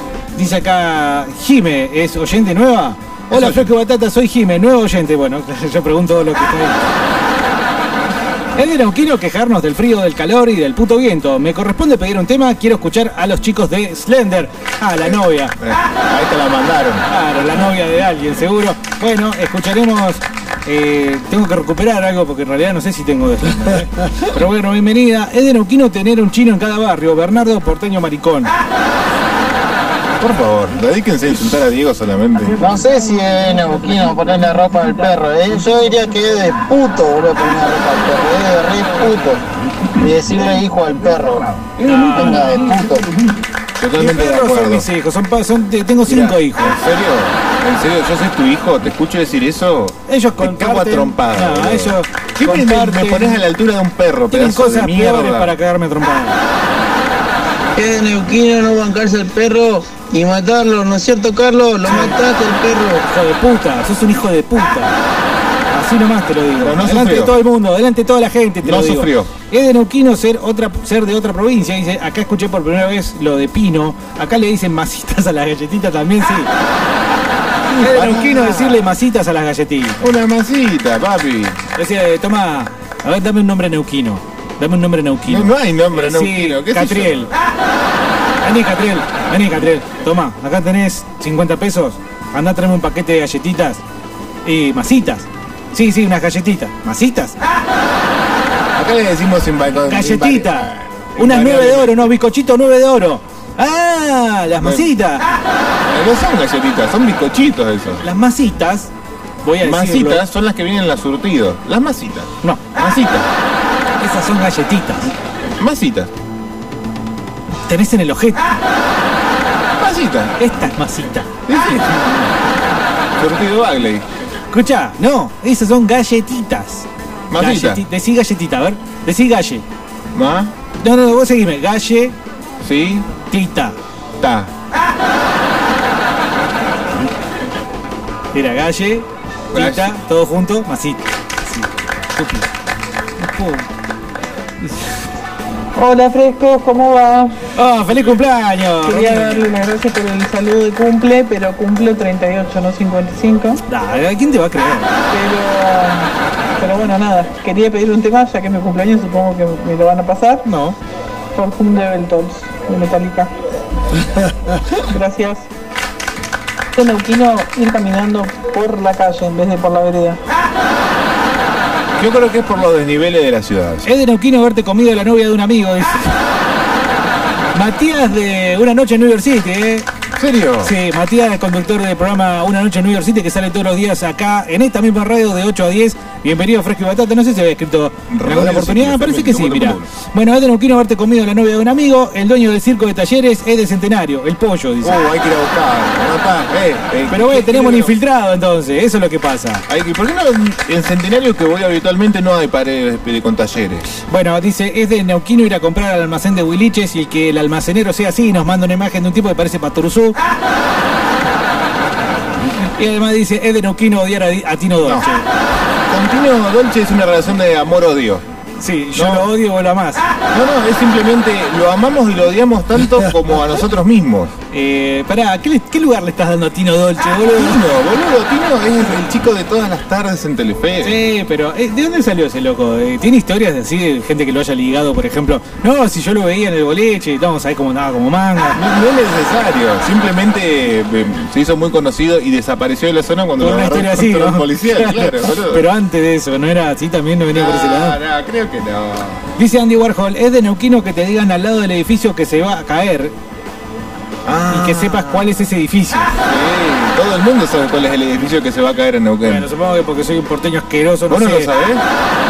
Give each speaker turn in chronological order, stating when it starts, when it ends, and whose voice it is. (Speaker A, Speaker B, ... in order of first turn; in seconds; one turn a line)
Speaker A: 0.3-6.9
Speaker B: 3.3-3.7
Speaker A: 8.6-15.5
Speaker B: 15.0-17.1
Speaker A: 17.1-28.5
Speaker B: 30.2-32.5
Speaker C: 32.6-39.4
Speaker C: 40.0-43.1
Speaker A: 41.8-42.4
Speaker B: 43.8-44.9
Speaker A: 44.0-46.8
Speaker B: 46.0-55.5
Speaker A: 50.1-53.4
Speaker A: 54.3-56.4
Speaker D: 57.8-59.6
Speaker D: 60.1-61.4
Speaker A: 61.9-62.2
Speaker A: 63.0-65.0
Speaker A: 65.7-76.5
Speaker B: 66.6-67.3
Speaker B: 68.6-69.3
Speaker A: 77.7-80.1
Speaker B: 77.8-78.9
Speaker B: 80.0-81.6
Speaker A: 81.8-87.3
Speaker B: 85.3-87.3
Speaker A: 88.4-93.8
Speaker A: 94.4-97.4
Speaker B: 98.7-102.1
Speaker A: 99.9-105.2
Speaker B: 104.6-104.9
Speaker B: 105.9-108.0
Speaker A: 108.0-108.9
Speaker A: 109.4-110.2
Speaker B: 109.6-113.3
Speaker A: 114.0-115.1
Speaker B: 115.6-116.1
Speaker A: 117.7-118.6
Speaker B: 119.8-120.3
Speaker A: 120.4-121.3
Speaker B: 121.5-122.3
Speaker B: 123.2-124.0
Speaker A: 124.5-126.8
Speaker B: 127.3-127.8
Speaker A: 127.4-129.6
Speaker B: 130.1-130.5
Speaker A: 130.8-132.1
Speaker B: 132.6-133.1
Speaker A: 133.3-133.8
Speaker B: 134.2-134.5
Speaker A: 138.3-142.5
Speaker B: 139.5-139.9
Speaker A: 143.2-143.7
Speaker E: 145.8-147.3
Speaker A: 147.5-149.5
Speaker E: 148.8-153.6
Speaker A: 153.7-154.9
Speaker E: 155.1-160.4
Speaker A: 160.4-160.8
Speaker E: 161.3-163.3
Speaker E: 164.9-165.5
Speaker E: 166.7-170.2
Speaker B: 172.0-173.9
Speaker A: 173.8-176.1
Speaker A: 177.5-179.9
Speaker B: 180.2-180.7
Speaker A: 180.6-195.0
Speaker B: 188.1-189.9
Speaker B: 194.8-197.9
Speaker A: 197.1-199.6
Speaker B: 199.7-203.9
Speaker A: 204.1-210.2
Speaker A: 212.8-215.2
Speaker B: 215.9-218.2
Speaker A: 218.6-220.0
Speaker B: 218.9-219.3
Speaker B: 220.3-224.3
Speaker A: 224.5-227.6
Speaker B: 227.3-231.0
Speaker A: 230.8-238.6
Speaker B: 238.5-245.7
Speaker A: 243.4-248.0
Speaker B: 247.3-249.2
Speaker A: 249.4-253.1
Speaker B: 254.2-255.3
Speaker A: 254.5-256.1
Speaker B: 256.2-259.5
Speaker A: 259.2-261.5
Speaker B: 261.1-261.8